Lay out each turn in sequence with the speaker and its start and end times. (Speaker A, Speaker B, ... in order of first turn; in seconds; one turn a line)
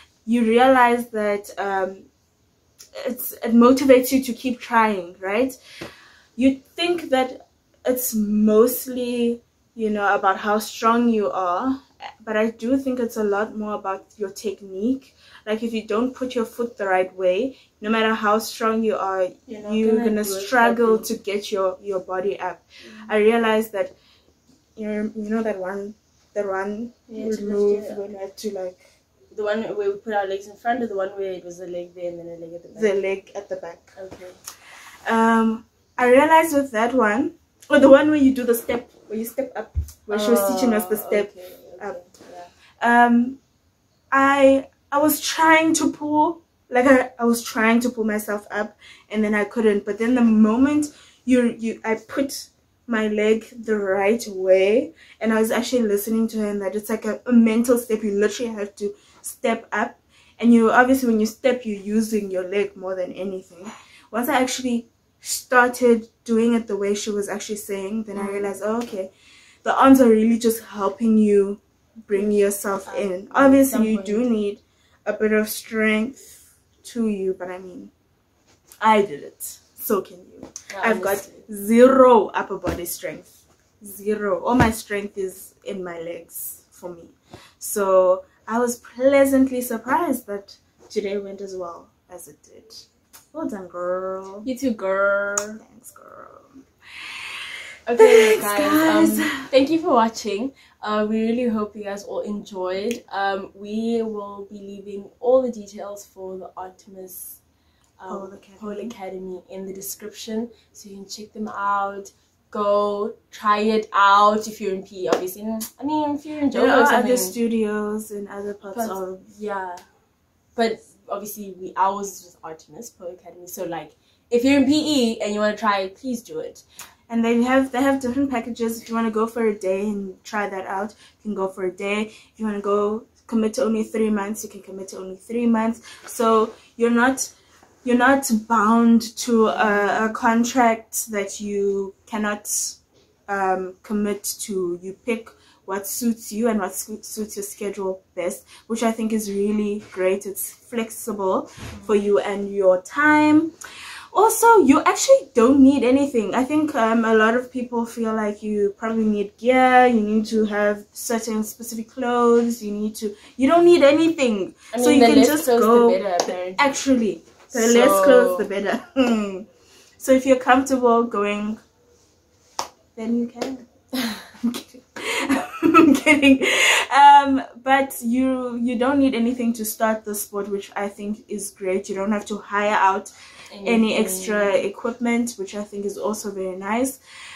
Speaker A: 0.3-2.1
Speaker A: 3.0-5.6
Speaker A: 6.4-23.9
Speaker B: 19.5-21.1
Speaker B: 22.9-23.1
Speaker A: 24.8-28.9
Speaker B: 27.1-28.0
Speaker B: 29.3-32.9
Speaker A: 32.7-33.9
Speaker B: 34.0-34.4
Speaker A: 35.0-42.0
Speaker B: 40.1-42.5
Speaker A: 42.8-43.4
Speaker A: 44.1-69.1
Speaker B: 68.1-68.6
Speaker A: 69.6-77.9
Speaker B: 72.1-74.3
Speaker A: 78.8-94.5
Speaker B: 80.7-81.5
Speaker B: 94.5-95.6
Speaker A: 95.6-99.5
Speaker B: 97.9-107.4
Speaker B: 108.0-117.4
Speaker A: 108.1-108.9
Speaker A: 116.5-119.2
Speaker B: 118.7-119.9
Speaker B: 120.6-126.6
Speaker A: 127.1-137.3
Speaker A: 137.8-153.5
Speaker B: 139.6-140.0
Speaker B: 151.7-152.0
Speaker A: 154.1-169.5
Speaker B: 164.7-166.8
Speaker B: 167.5-168.5
Speaker A: 170.0-171.6
Speaker A: 172.9-173.7
Speaker A: 174.3-187.0
Speaker B: 183.5-184.5